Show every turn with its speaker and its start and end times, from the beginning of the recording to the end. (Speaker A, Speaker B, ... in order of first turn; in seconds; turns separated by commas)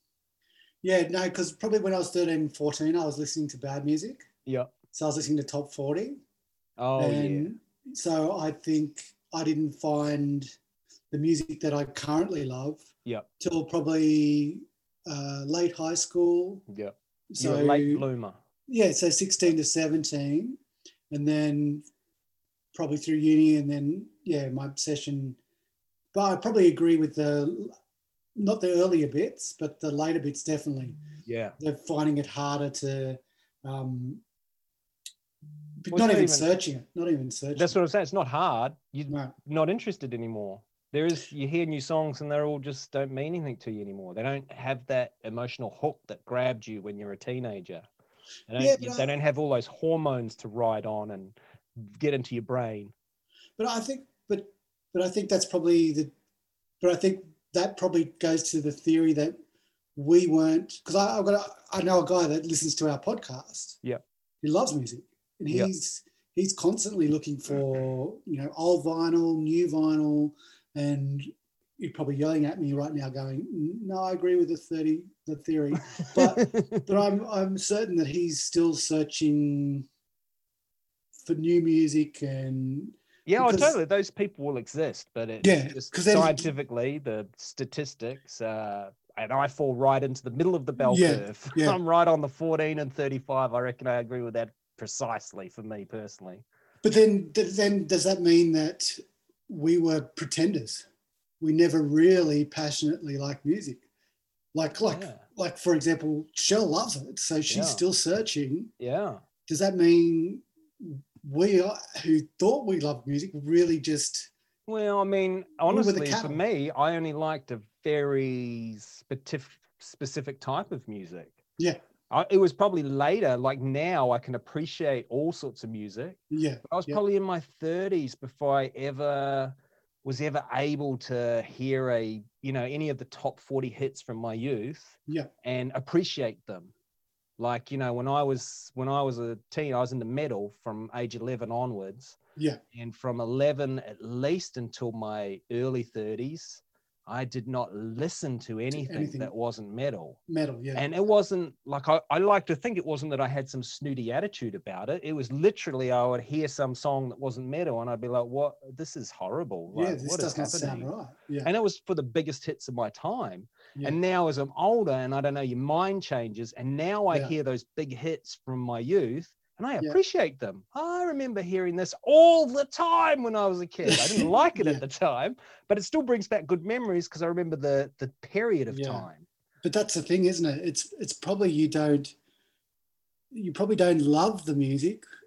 Speaker A: 0.8-4.3, Speaker B: 4.5-4.7, Speaker A: 4.9-6.2, Speaker B: 6.8-7.5, Speaker A: 7.0-10.5, Speaker A: 11.1-12.9, Speaker A: 13.4-16.6, Speaker B: 16.7-18.4, Speaker A: 17.3-18.1, Speaker A: 18.7-20.6, Speaker A: 21.1-21.8, Speaker A: 22.7-25.4, Speaker A: 26.1-27.7, Speaker A: 28.4-31.0, Speaker B: 31.2-31.6, Speaker A: 31.6-34.2, Speaker A: 35.8-37.7, Speaker B: 35.9-36.5, Speaker B: 37.5-47.9, Speaker B: 48.5-52.9, Speaker A: 48.6-49.1, Speaker A: 53.6-56.1, Speaker A: 56.8-59.4, Speaker A: 59.9-63.8, Speaker A: 64.4-79.8, Speaker B: 76.0-76.8, Speaker A: 81.2-83.7, Speaker B: 83.2-96.4, Speaker A: 85.4-86.5, Speaker A: 90.8-91.8, Speaker A: 96.8-100.8, Speaker A: 101.4-103.8, Speaker A: 104.5-108.7, Speaker B: 104.9-105.2, Speaker B: 107.5-107.8, Speaker B: 108.8-109.2, Speaker A: 109.5-114.3, Speaker B: 114.7-121.4, Speaker A: 115.7-116.4, Speaker B: 122.1-136.7, Speaker A: 126.3-127.0, Speaker B: 137.4-142.2, Speaker B: 142.7-150.2, Speaker A: 148.7-149.3, Speaker A: 150.3-150.8, Speaker B: 150.7-160.9, Speaker A: 159.7-161.5, Speaker B: 161.4-179.3, Speaker A: 173.8-174.8, Speaker A: 178.7-179.1, Speaker A: 179.6-182.1, Speaker A: 183.3-185.0